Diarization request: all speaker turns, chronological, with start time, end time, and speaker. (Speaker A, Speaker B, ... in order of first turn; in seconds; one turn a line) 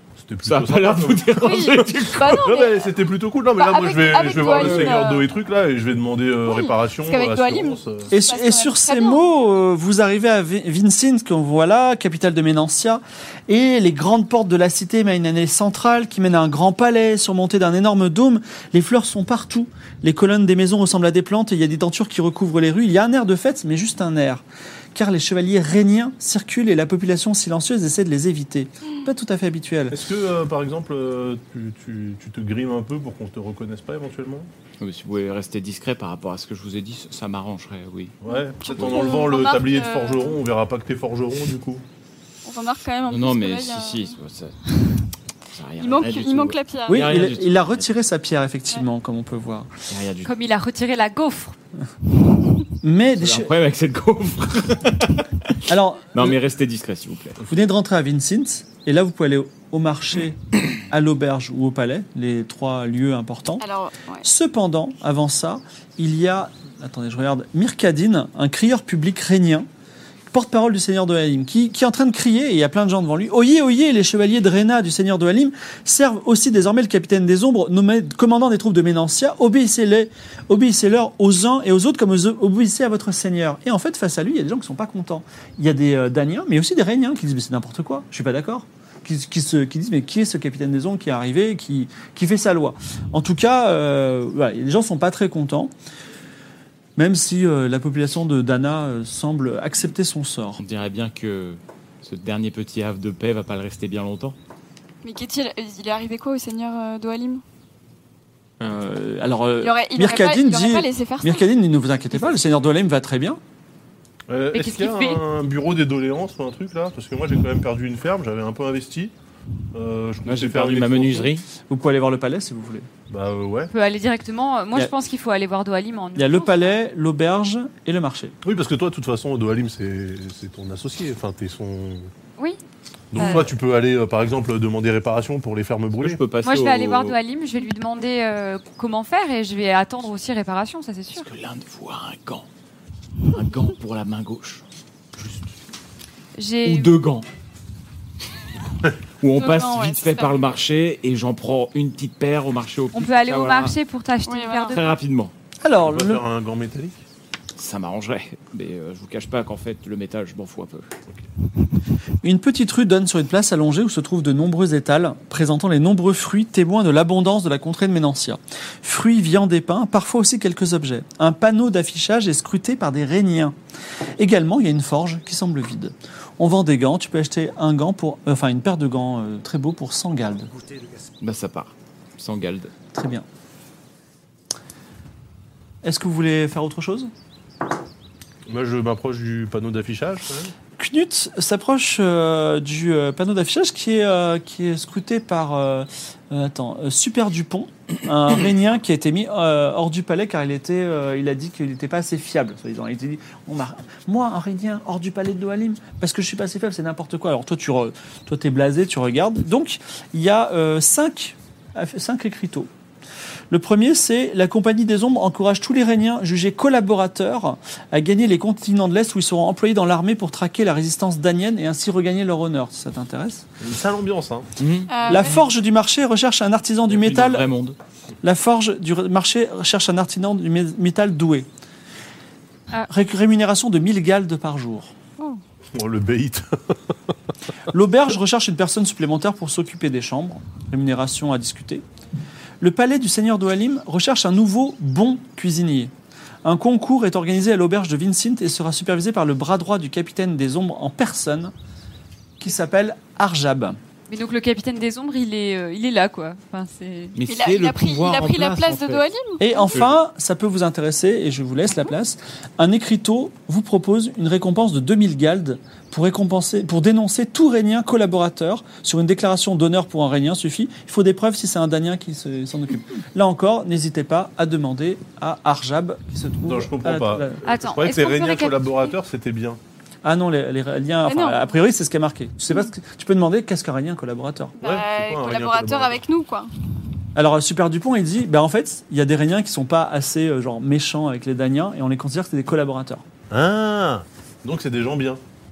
Speaker A: 0.2-1.8
Speaker B: 0.4-2.5
Speaker C: 1.4-2.9
Speaker A: 2.3-8.1
Speaker C: 3.6-5.3
Speaker B: 4.5-5.0
Speaker C: 6.5-9.2
Speaker D: 8.1-30.0
Speaker A: 29.9-34.5
Speaker B: 34.8-38.2
Speaker A: 38.2-41.8
Speaker C: 38.3-40.4
Speaker B: 38.8-39.1
Speaker C: 42.5-44.2
Speaker B: 43.1-44.8
Speaker B: 45.5-47.9
Speaker C: 45.8-47.1
Speaker D: 46.9-49.7
Speaker B: 49.9-50.3
Speaker E: 50.2-51.6
Speaker D: 52.8-53.5
Speaker B: 53.2-55.6
Speaker D: 55.7-56.4
Speaker B: 56.1-57.4
Speaker D: 57.5-63.6
Speaker C: 63.6-64.3
Speaker D: 64.2-69.7
Speaker D: 70.3-95.7
Speaker D: 97.0-100.6
Speaker B: 100.6-104.4
Speaker C: 105.0-107.4
Speaker D: 108.6-113.4
Speaker C: 109.6-111.5
Speaker A: 114.3-119.1
Speaker E: 114.5-115.2
Speaker A: 119.7-121.3
Speaker B: 120.2-121.5
Speaker D: 121.7-122.9
Speaker A: 123.1-123.7
Speaker E: 123.7-126.7
Speaker D: 126.2-128.3
Speaker A: 128.4-132.1
Speaker A: 133.1-136.2
Speaker E: 133.2-133.5
Speaker B: 136.0-137.2
Speaker E: 136.4-141.3
Speaker B: 141.2-142.5
Speaker B: 143.3-144.6
Speaker E: 146.4-146.9
Speaker B: 146.7-147.3
Speaker B: 149.2-153.8
Speaker C: 149.3-150.4
Speaker E: 152.9-154.8
Speaker C: 154.3-154.8
Speaker B: 154.7-155.3
Speaker D: 155.6-156.2
Speaker A: 155.8-157.0
Speaker B: 157.6-160.9
Speaker D: 162.2-173.6
Speaker D: 174.2-180.5
Speaker B: 181.2-182.7
Speaker D: 182.9-183.3
Speaker D: 185.8-187.1
Speaker A: 188.5-190.5
Speaker D: 190.8-212.7
Speaker D: 213.5-223.5
Speaker A: 223.6-224.5
Speaker B: 224.6-225.3
Speaker C: 224.9-225.4
Speaker D: 225.1-227.5
Speaker B: 226.9-227.8
Speaker D: 228.2-231.5
Speaker D: 232.9-234.9
Speaker A: 235.7-236.7
Speaker D: 237.7-241.8
Speaker D: 242.6-245.9
Speaker D: 246.4-251.5
Speaker D: 252.4-253.8
Speaker E: 254.1-257.2
Speaker B: 257.2-259.0
Speaker C: 257.3-259.7
Speaker D: 259.4-277.4
Speaker A: 276.5-279.6
Speaker E: 277.4-278.9
Speaker D: 280.0-284.6
Speaker C: 281.1-281.5
Speaker C: 284.6-286.5
Speaker A: 284.6-286.0
Speaker D: 287.1-293.0
Speaker A: 293.3-295.2